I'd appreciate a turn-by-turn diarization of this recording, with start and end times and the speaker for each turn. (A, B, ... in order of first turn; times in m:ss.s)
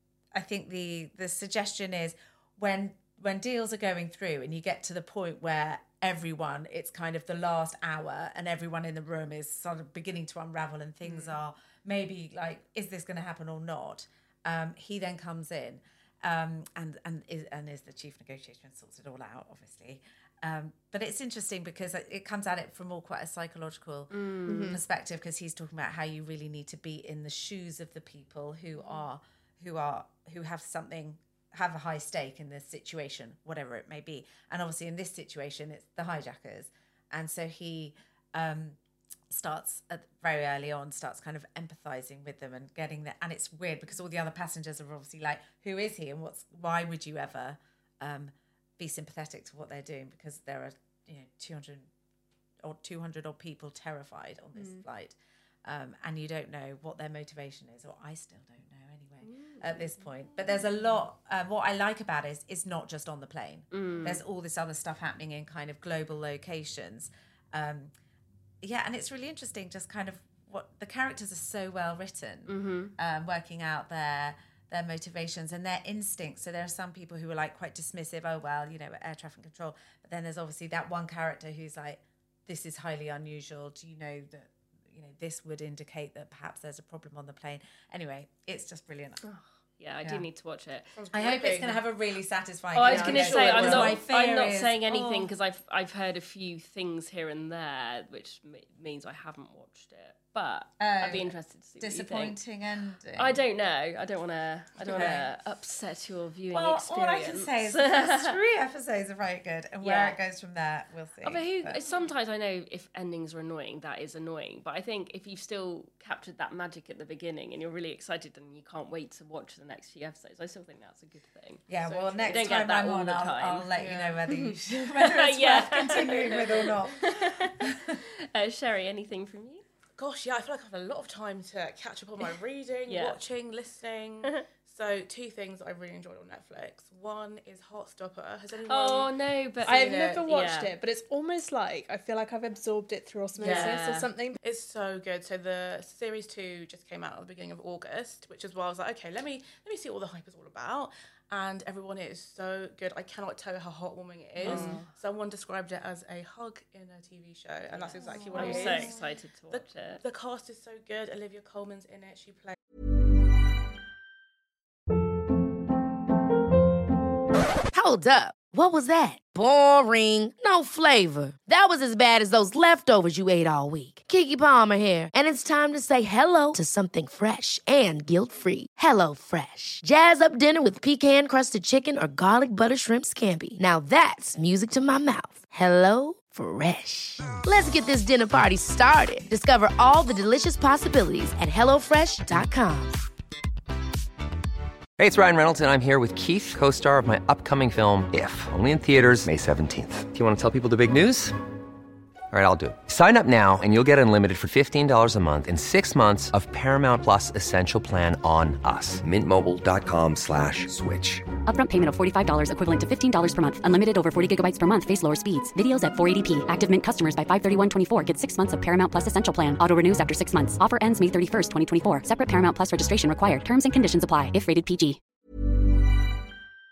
0:00.3-0:38.8 A
0:11.0-0:11.3 B
0:24.1-0:24.8 C
0:24.4-0:24.8 B
0:39.3-0:51.9 A
0:52.6-1:07.9 A
0:54.6-0:54.8 B
0:59.2-1:00.1 C
1:03.7-1:04.2 C
1:08.6-1:29.2 A
1:12.5-1:12.9 C
1:29.2-1:30.9 C
1:31.0-1:31.8 D
1:31.1-1:35.3 A
1:32.7-1:42.4 C
1:32.8-1:34.0 D
1:40.8-1:43.4 A
1:43.1-1:48.3 C
1:44.8-1:45.3 A
1:46.5-1:51.8 A
1:49.8-1:50.2 C
1:51.2-2:01.6 C
1:51.8-1:52.1 D
2:01.7-2:08.0 A
2:01.8-2:02.6 D
2:02.2-2:03.7 C
2:03.7-2:04.2 D
2:04.3-2:04.6 B
2:05.0-2:09.6 C
2:10.0-2:19.1 D
2:12.9-2:13.2 C
2:18.6-2:20.7 C
2:19.6-2:20.2 D
2:19.6-2:24.4 B
2:23.4-2:23.8 D
2:23.4-2:24.1 C
2:24.4-2:38.9 D
2:34.4-2:34.9 C
2:34.4-2:34.8 B
2:37.7-2:40.0 C
2:38.0-2:38.9 B
2:38.3-2:38.8 A
2:39.5-2:42.6 D
2:47.7-3:13.0 E
3:15.0-3:21.4 F
3:22.3-3:31.3 F
3:31.4-3:45.0 G